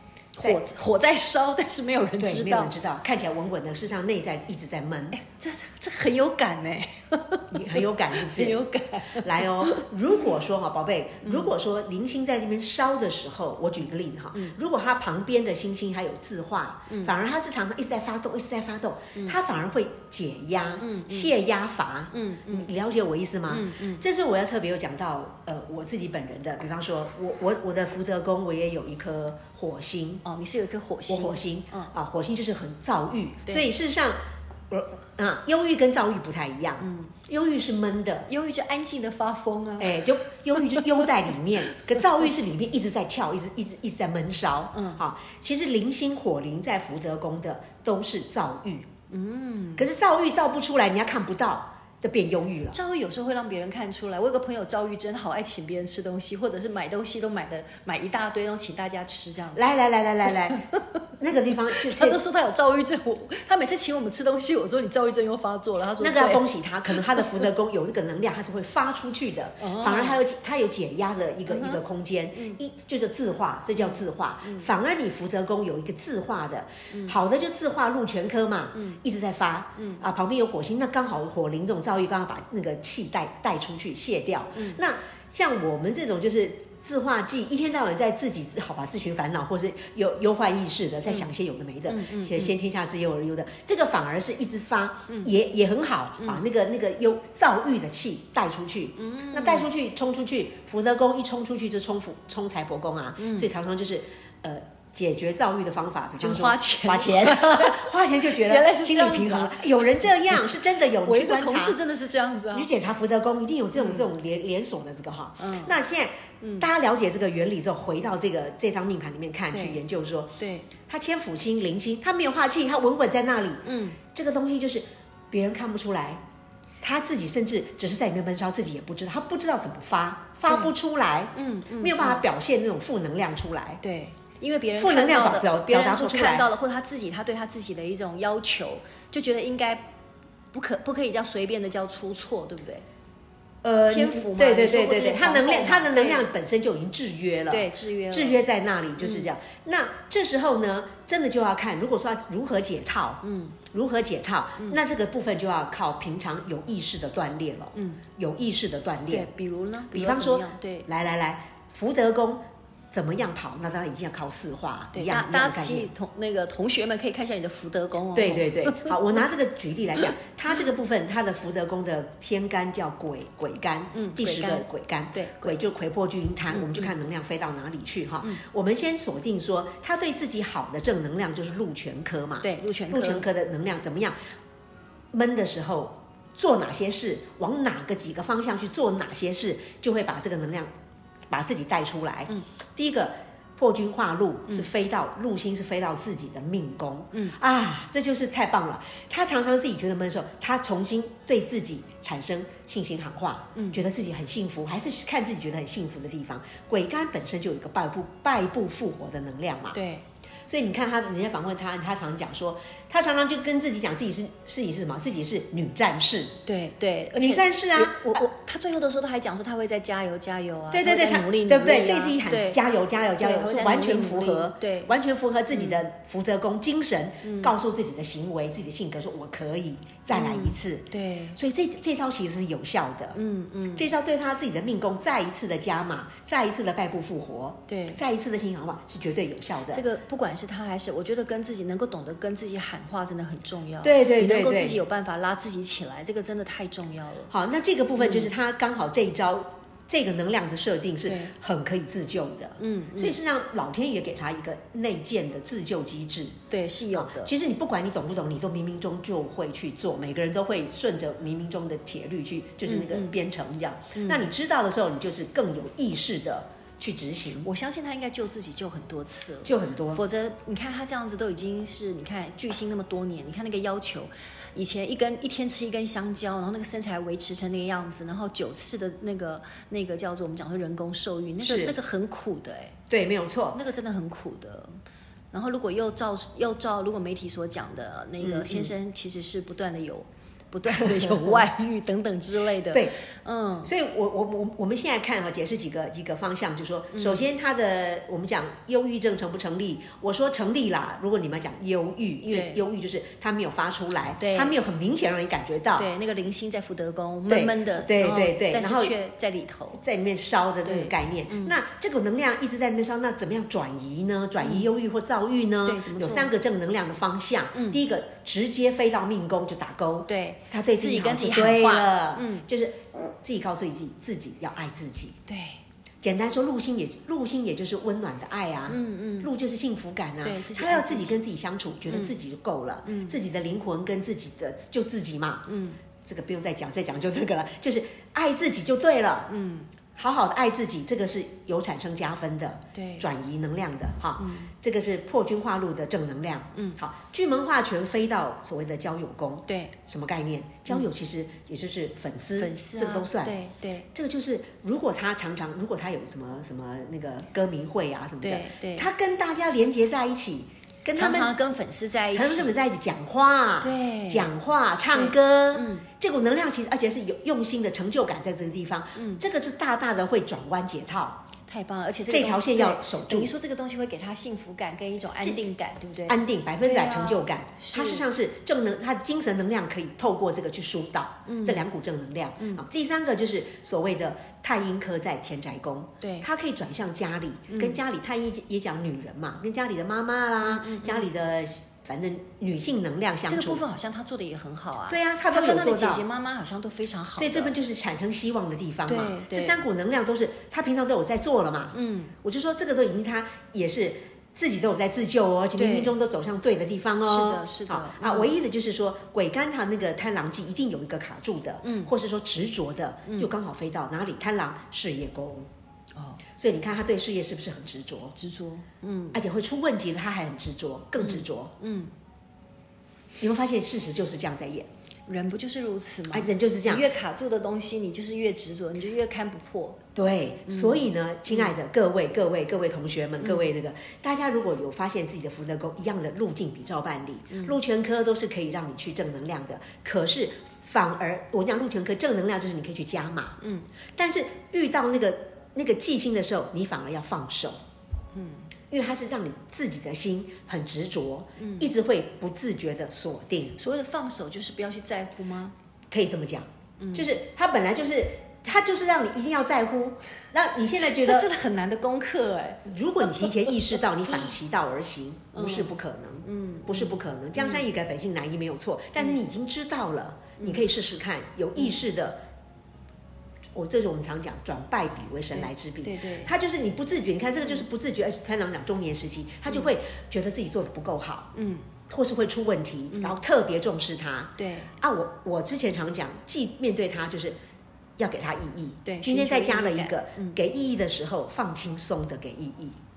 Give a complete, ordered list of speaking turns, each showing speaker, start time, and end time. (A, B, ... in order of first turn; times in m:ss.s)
0:00.4-0:02.7 A
0:02.2-0:05.2 B
0:05.1-0:09.9 A
0:07.5-0:08.6 B
0:09.1-0:30.2 B
0:11.2-0:11.5 A
0:16.9-0:17.1 A
0:20.8-0:21.3 A
0:22.1-0:22.7 A
0:23.5-0:24.0 A
0:30.2-0:31.9 A
0:31.1-0:34.2 B
0:34.7-0:38.3 B
0:36.8-0:37.1 A
0:38.3-0:41.0 A
0:39.8-0:48.9 B
0:44.7-0:45.0 A
0:49.1-0:49.8 A
0:49.8-0:52.8 B
0:52.7-0:59.7 A
0:59.6-1:00.6 B
1:00.2-1:01.0 A
1:01.2-1:02.2 B
1:01.7-1:07.4 A
1:06.0-1:51.8 B
1:09.6-1:10.2 A
1:11.5-1:11.8 A
1:13.8-1:14.7 A
1:16.9-1:17.2 A
1:19.8-1:20.0 A
1:24.5-1:24.8 A
1:31.9-1:32.5 A
1:39.0-1:39.7 A
1:43.2-1:43.5 A
1:46.2-1:52.7 A
1:52.5-2:06.2 B
1:53.8-1:54.1 A
1:55.4-1:55.7 A
1:56.4-1:56.7 A
1:59.5-1:59.8 A
2:00.4-2:00.7 A
2:03.6-2:04.0 A
2:06.8-2:13.8 B
2:11.3-2:12.2 A
2:13.8-2:19.9 A
2:14.8-2:16.5 B
2:20.5-2:22.8 A
2:23.6-2:39.3 B
2:23.9-2:26.3 A
2:27.5-2:28.4 A
2:29.0-2:29.3 A
2:33.2-2:33.6 A
2:37.7-2:38.0 A
2:39.1-2:40.9 A
2:39.9-2:45.9 B
2:44.9-2:49.0 A
2:48.1-3:04.1 B
2:53.9-2:55.6 A
2:56.5-2:56.9 A
3:02.4-3:03.2 A
3:05.1-3:10.7 B
3:11.3-3:29.8 B
3:23.5-3:23.8 A
3:29.7-3:30.0 A
3:30.5-3:36.4 B
3:36.4-3:42.6 A
3:37.1-3:38.2 B
3:40.7-3:53.2 B
3:43.2-3:44.9 A
3:45.5-3:45.8 A
3:47.2-3:47.5 A
3:50.1-3:51.4 A
3:53.1-3:53.9 A
3:53.7-3:59.8 B
3:57.7-3:58.0 A
3:59.7-4:07.3 A
4:03.8-4:04.8 B
4:07.3-4:16.4 B
4:08.0-4:08.3 A
4:11.0-4:11.3 A
4:12.6-4:13.2 A
4:16.5-4:17.3 A
4:16.9-4:27.5 B
4:22.6-4:23.1 A
4:23.9-4:24.3 A
4:27.4-4:42.8 A
4:29.4-4:30.0 B
4:41.4-4:41.8 B
4:42.9-4:43.6 B
4:43.5-4:44.7 A
4:45.3-4:53.7 A
4:48.2-4:48.7 B
4:50.7-4:51.4 B
4:52.7-4:53.0 B
4:53.6-5:05.9 B
4:56.9-4:57.2 A
5:02.3-5:02.6 A
5:04.2-5:04.6 A
5:05.7-5:09.8 A
5:07.3-5:08.9 B
5:09.8-5:25.2 B
5:10.6-5:11.6 A
5:14.4-5:14.7 A
5:15.6-5:16.3 A
5:20.1-5:22.5 A
5:25.3-5:25.6 A
5:26.0-5:35.4 B
5:28.7-5:29.3 A
5:30.2-5:31.2 A
5:32.8-5:33.2 A
5:35.5-5:35.8 A
5:36.0-5:39.3 B
5:39.3-5:39.7 A
5:40.0-5:53.4 B
5:42.7-5:43.1 A
5:44.2-5:44.5 A
5:49.5-5:49.7 A
5:52.4-5:53.9 A
5:53.9-6:01.3 B
5:58.2-5:58.9 A
6:00.9-6:02.5 A
6:02.1-6:11.2 B
6:03.6-6:04.3 A
6:04.9-6:05.8 A
6:09.0-6:09.2 A
6:11.5-6:18.0 A
6:12.1-6:13.3 B
6:16.1-6:33.6 B
6:21.2-6:21.6 A
6:22.4-6:22.6 A
6:26.0-6:26.3 A
6:27.5-6:27.8 A
6:30.4-6:31.1 A
6:33.3-6:37.6 A
6:34.9-6:36.0 B
6:37.2-6:55.5 B
6:38.9-6:39.6 A
6:41.7-6:42.1 A
6:45.6-6:45.9 A
6:47.0-6:48.3 A
6:51.6-6:51.9 A
6:56.4-6:58.2 B
6:58.2-6:59.2 A
6:59.1-7:01.5 B
7:01.0-7:01.9 A
7:03.2-7:04.7 B
7:05.1-7:09.8 A
7:06.1-7:06.9 B
7:09.9-7:23.4 B
7:10.5-7:11.5 A
7:17.3-7:17.6 A
7:23.4-7:23.7 A
7:24.0-7:27.6 B
7:28.1-7:28.5 A
7:28.7-7:33.6 B
7:31.4-7:31.7 A
7:33.6-7:35.5 A
7:35.9-7:41.3 B
7:36.8-7:37.1 A
7:40.8-7:43.5 A
7:42.6-7:52.2 B
7:45.3-7:45.7 A
7:46.2-7:47.7 A
7:50.4-7:50.6 A
7:53.5-8:01.3 B
7:55.3-7:56.3 A
8:01.3-8:01.7 A
8:01.9-8:07.3 B
8:04.4-8:04.7 A
8:08.0-8:12.8 B
8:08.8-8:10.4 A